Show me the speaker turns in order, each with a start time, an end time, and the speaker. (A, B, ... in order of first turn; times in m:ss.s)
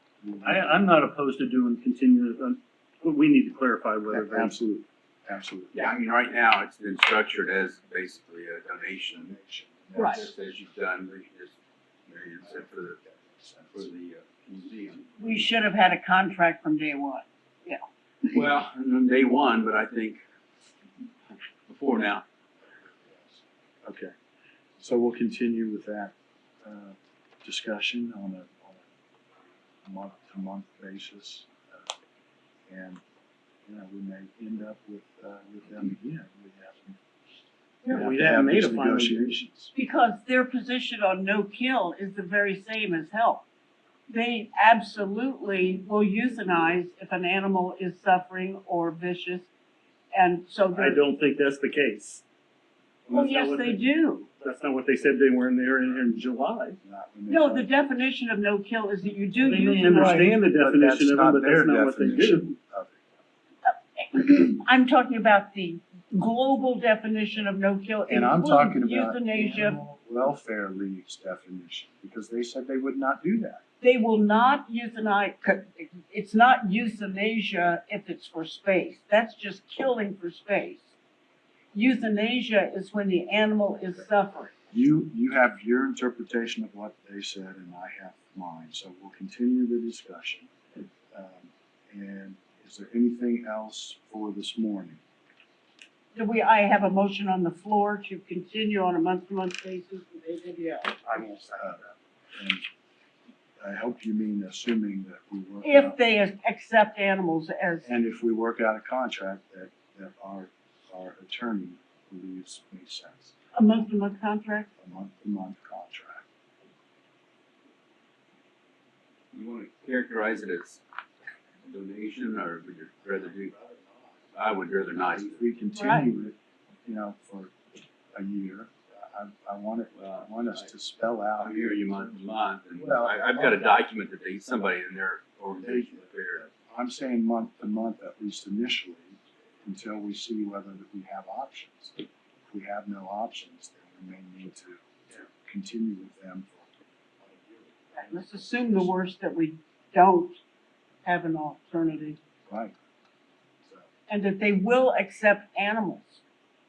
0:00.2-0:00.8 A
0:00.4-0:04.6 B
0:04.1-0:05.9 A
0:05.7-0:09.3 C
0:09.1-0:10.3 A
0:09.9-0:10.2 D
0:10.0-0:13.0 C
0:12.4-0:13.9 A
0:13.7-0:15.3 C
0:15.2-0:17.8 D
0:18.3-0:20.2 C
0:21.7-0:22.2 C
0:22.8-0:24.1 A
0:24.8-0:28.9 A
0:29.8-0:31.8 A
0:32.7-0:33.0 A
0:33.6-0:37.0 A
0:37.8-0:39.3 B
0:37.9-0:39.7 A
0:39.7-0:43.4 D
0:44.1-0:49.5 D
0:50.1-0:51.0 D
0:50.7-0:52.2 B
0:53.1-0:53.8 B
0:53.1-0:54.3 D
0:54.4-0:56.8 B
0:56.8-0:57.8 A
0:57.3-1:00.3 D
0:59.4-1:02.5 B
0:59.9-1:03.0 A
1:03.6-1:09.8 D
1:08.1-1:13.6 A
1:13.8-1:20.9 D
1:21.7-1:24.5 D
1:24.7-1:30.5 A
1:31.1-1:35.0 A
1:36.1-1:41.0 D
1:41.0-1:41.9 B
1:41.5-1:41.8 A
1:42.3-1:42.6 A
1:43.6-1:46.0 A
1:45.6-1:47.9 D
1:47.8-1:53.3 A
1:53.5-1:54.7 D
1:54.8-1:56.2 A
1:59.3-2:00.8 C
2:01.6-2:03.5 C
2:03.1-2:04.2 A
2:04.3-2:05.4 C
2:04.9-2:07.5 A
2:05.7-2:06.1 D
2:08.1-2:12.1 A
2:09.9-2:10.6 C
2:11.4-2:16.4 C
2:12.8-2:13.7 A
2:15.6-2:26.7 A
2:27.2-2:29.0 A
2:27.9-2:30.4 D
2:31.0-2:32.2 D
2:32.5-2:32.7 A
2:34.1-2:36.2 D